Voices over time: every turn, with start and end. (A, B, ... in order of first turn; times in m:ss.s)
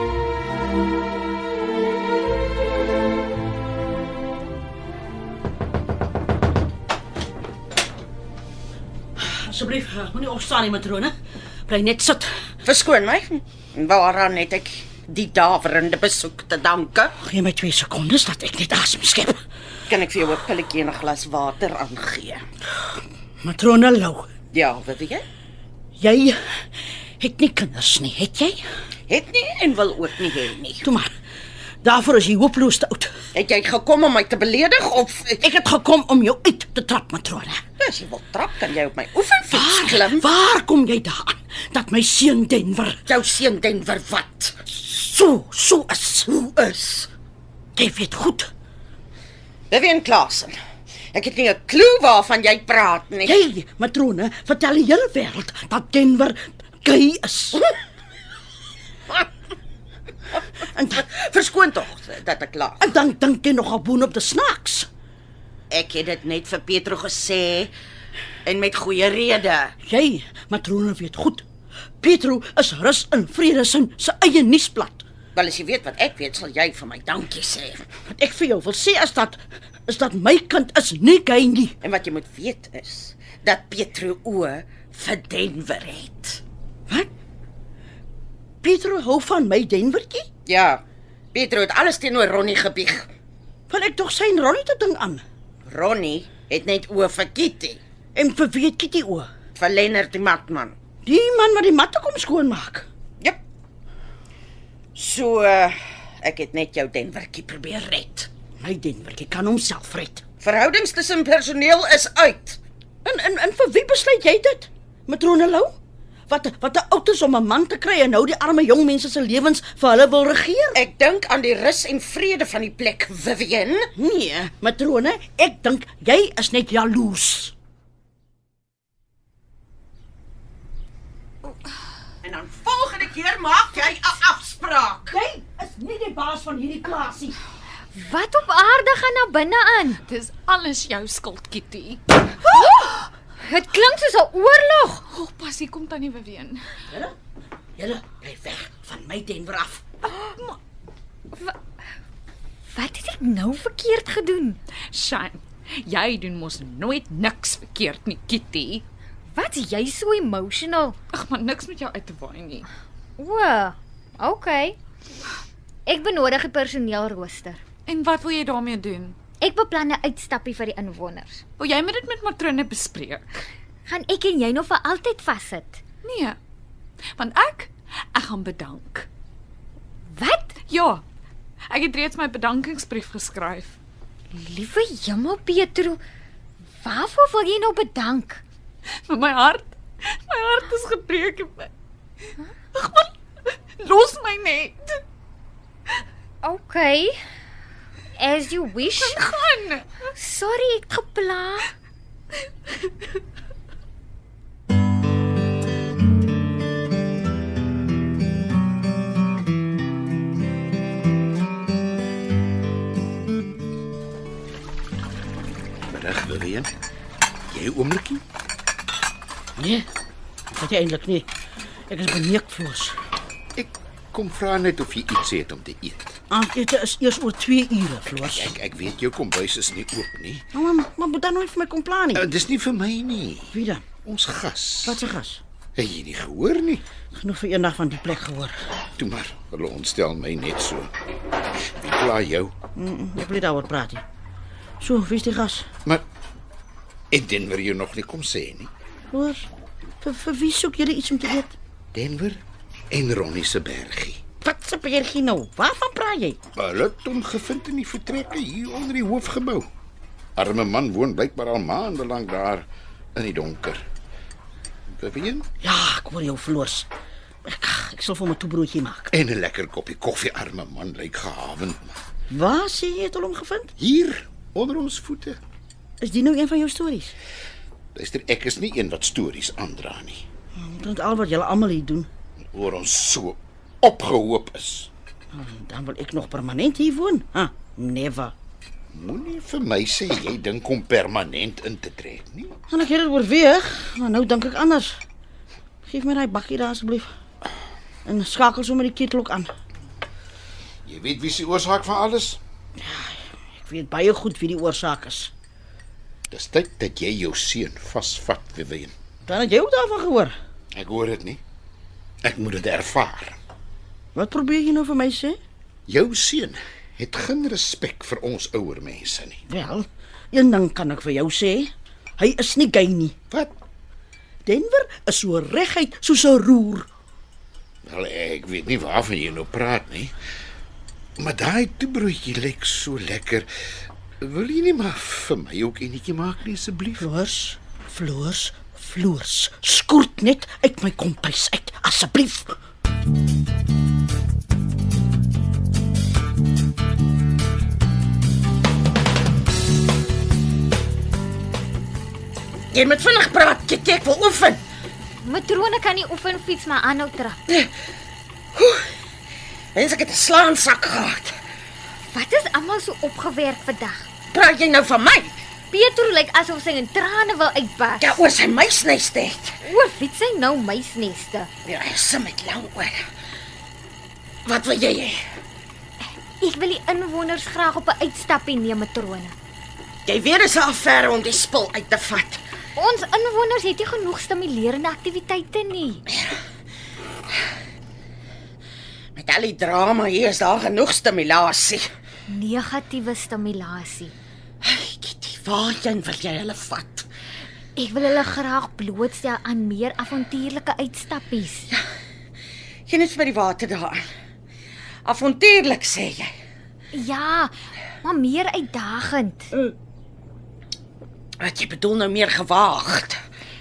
0:09.2-0:11.1 A
0:11.7-0:12.3 A
0:12.6-0:17.1 B
0:17.2-0:19.4 A
0:19.9-0:22.4 B
0:23.4-0:24.3 A
0:24.5-0:25.2 B
0:26.0-0:26.4 A
0:27.2-0:28.6 A
0:29.1-0:30.8 B
0:30.8-0:31.1 A
0:31.8-0:33.1 A
0:33.3-0:35.4 B
0:35.4-0:37.6 A
0:37.8-0:40.2 B
0:39.5-0:43.0 A
0:43.1-0:44.6 B
0:44.7-0:46.3 A
0:46.3-0:47.1 B
0:47.8-0:48.5 A
0:49.7-0:50.5 B
0:51.1-0:53.4 B
0:53.2-0:57.6 A
1:00.6-1:01.0 A
1:01.0-1:02.8 B
1:02.8-1:04.9 A
1:05.7-1:07.7 B
1:08.4-1:09.7 B
1:09.8-1:11.4 A
1:12.0-1:15.0 A
1:15.3-1:17.8 B
1:18.1-1:21.8 A
1:21.8-1:26.4 B
1:28.6-1:30.3 A
1:30.4-1:30.8 B
1:31.3-1:33.1 B
1:33.7-1:35.2 A
1:35.6-1:37.8 B
1:38.1-1:39.3 A
1:39.6-1:40.7 B
1:41.0-1:42.8 A
1:45.0-1:48.3 B
1:48.6-1:50.2 A
1:50.4-1:52.6 B
1:53.0-2:00.8 A
2:00.7-2:03.8 B
2:04.0-2:07.5 A
2:12.2-2:15.1 B
2:15.1-2:17.4 A
2:17.9-2:20.0 C
2:20.0-2:22.6 D
2:23.4-2:25.0 C
2:25.1-2:26.7 D
2:26.9-2:27.1 A
2:27.8-2:29.8 A
2:30.1-2:30.6 D
2:32.7-2:34.6 C
2:34.9-2:38.8 D
2:39.3-2:40.9 C
2:41.1-2:42.7 D
2:43.2-2:44.8 C
2:45.8-2:47.6 C
2:47.9-2:49.2 D
2:49.4-2:51.4 C
2:51.6-2:53.4 D
2:53.9-2:55.8 C
2:56.0-2:56.4 D
2:57.2-2:59.1 D
3:00.1-3:00.5 C
3:00.7-3:01.0 D
3:01.7-3:03.8 D
3:04.3-3:06.0 C
3:06.8-3:08.4 C
3:09.1-3:11.7 D
3:12.7-3:13.1 D
3:13.8-3:15.0 D
3:16.4-3:17.2 C
3:18.2-3:19.2 C
3:18.9-3:19.9 D
3:20.1-3:21.7 C
3:35.9-3:36.7 E
3:37.5-3:38.2 E
3:39.6-3:39.8 A
3:40.5-3:41.3 A
3:41.9-3:43.0 A
3:43.6-3:46.1 E
3:46.3-3:48.5 A
3:48.4-3:50.4 E
3:50.5-3:52.2 A
3:52.2-3:53.5 E
3:53.5-3:53.8 A
3:54.0-3:54.9 E
3:54.8-3:55.4 A
3:55.8-3:56.8 E
3:57.1-3:58.6 A
3:59.0-4:00.9 E
4:01.8-4:02.5 E
4:02.7-4:04.0 A
4:04.8-4:05.7 A
4:07.1-4:08.7 E
4:09.1-4:09.5 A
4:10.0-4:11.6 A
4:11.9-4:12.4 E
4:12.9-4:14.2 E
4:14.4-4:16.4 A
4:16.6-4:19.7 E
4:20.4-4:23.8 E
4:25.0-4:25.4 E
4:25.6-4:26.9 A
4:27.4-4:29.1 A
4:29.1-4:31.9 E
4:32.3-4:33.7 A
4:33.8-4:35.4 E
4:36.0-4:37.1 A
4:37.9-4:40.2 E
4:40.6-4:42.1 A
4:42.5-4:44.9 E
4:45.3-4:48.3 A
4:48.9-4:52.5 E
4:52.7-4:55.0 A
4:55.8-4:57.1 A
4:58.0-4:59.5 A
5:00.8-5:02.4 E
5:02.8-5:05.3 A
5:06.3-5:08.9 E
5:09.2-5:10.3 A
5:10.7-5:11.4 E
5:12.2-5:13.4 E
5:14.1-5:15.4 A
5:15.9-5:19.4 E
5:19.5-5:23.2 A
5:24.4-5:26.9 A
5:27.8-5:30.1 E
5:31.2-5:33.5 E
5:34.2-5:37.0 E
5:37.0-5:42.5 A
5:52.7-5:54.6 B
5:55.2-5:57.4 C
5:58.5-5:58.9 B
5:59.7-6:01.3 B
6:02.0-6:04.1 C
6:04.3-6:05.3 B
6:05.7-6:08.2 C
6:08.0-6:09.6 B
6:09.6-6:11.5 C
6:11.6-6:13.0 B
6:14.4-6:15.2 B
6:16.4-6:19.3 C
6:20.0-6:22.4 B
6:22.8-6:26.0 C
6:29.2-6:31.9 B
6:32.3-6:34.1 C
6:34.6-6:37.1 B
6:37.8-6:41.7 C
6:42.9-6:44.0 B
6:45.0-6:46.3 B
6:46.9-6:49.5 C
6:51.4-6:53.2 B